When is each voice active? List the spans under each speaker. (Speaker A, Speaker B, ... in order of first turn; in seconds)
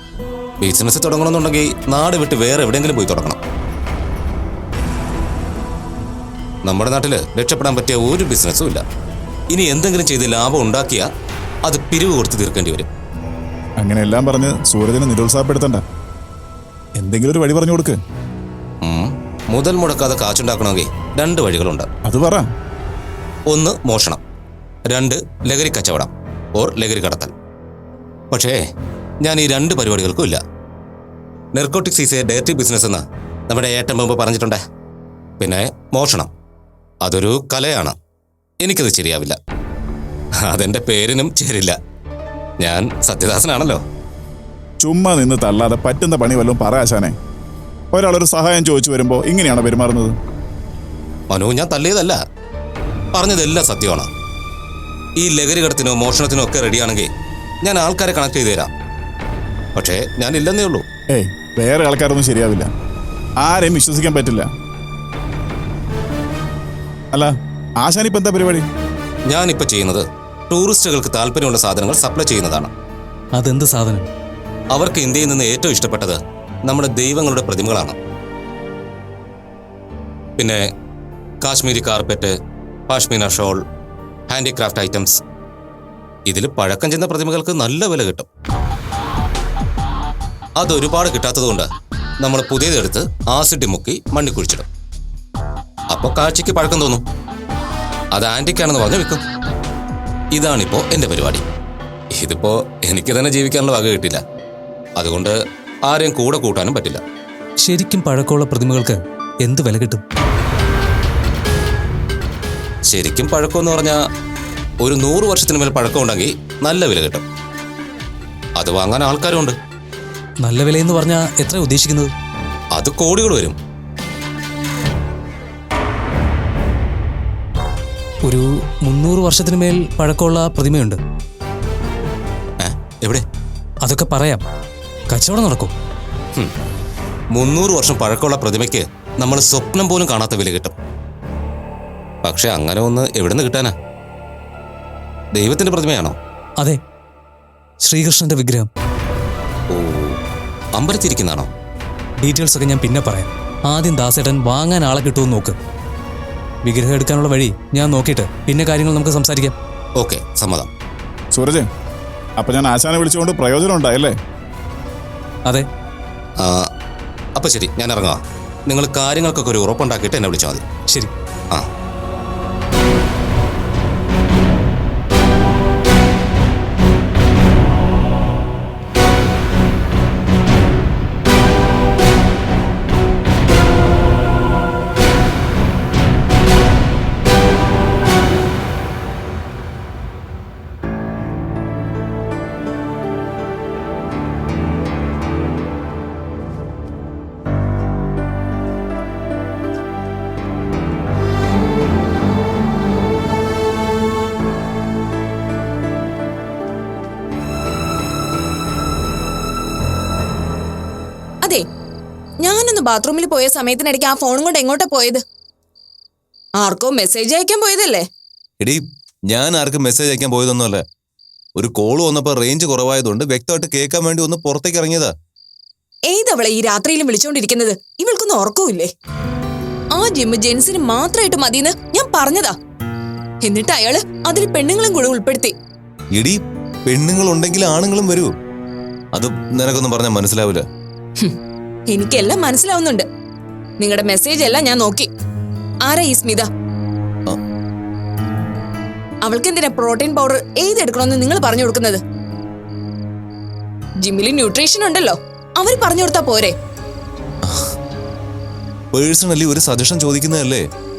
Speaker A: 0.6-3.4, 6.7-8.8, 9.5-11.1, 11.7-12.9, 18.8-21.9, 23.5-24.2, 24.9-27.3, 28.3-28.6, 29.2-30.4, 31.6-34.6, 35.4-36.3, 37.0-38.0, 38.6-39.4, 40.4-41.8, 42.6-43.8, 51.3-52.2, 53.1-54.1, 55.2-57.1, 57.6-58.7, 59.8-60.8, 69.3-72.7, 74.7-78.0, 80.4-80.7, 81.4-82.3, 82.9-83.6, 84.3-85.2, 86.3-88.3, 90.6-91.7, 92.2-94.7, 95.9-97.0, 98.2-99.2, 100.3-101.4, 102.2-104.2, 105.0-107.0, 112.9-114.0, 114.8-117.2, 118.6-119.6, 122.7-123.6, 132.6-133.2, 137.3-140.7, 142.2-143.8, 145.3-146.2, 149.7-150.2, 150.8-151.5, 160.0-160.7, 166.4-166.7, 167.4-170.6
Speaker B: 13.8-15.8, 17.0-18.0, 22.1-22.5, 44.8-47.1, 47.9-50.2, 61.1-62.7, 63.4-64.5, 67.1-68.7, 161.3-161.7, 162.4-164.2
Speaker C: 73.4-74.1, 107.6-110.0, 120.4-122.1, 128.2-131.0, 133.8-134.4, 135.1-135.7, 147.8-148.7, 152.2-155.6, 156.7-159.6
Speaker D: 212.4-215.2, 216.6-218.1, 226.1-228.9, 229.9-232.6, 233.4-235.5, 241.9-243.1, 243.8-245.1, 245.8-246.5, 249.2-252.0, 254.0-256.6
Speaker E: 218.6-220.8, 221.6-225.1, 236.2-238.3, 239.1-240.7, 257.4-257.7, 258.9-260.6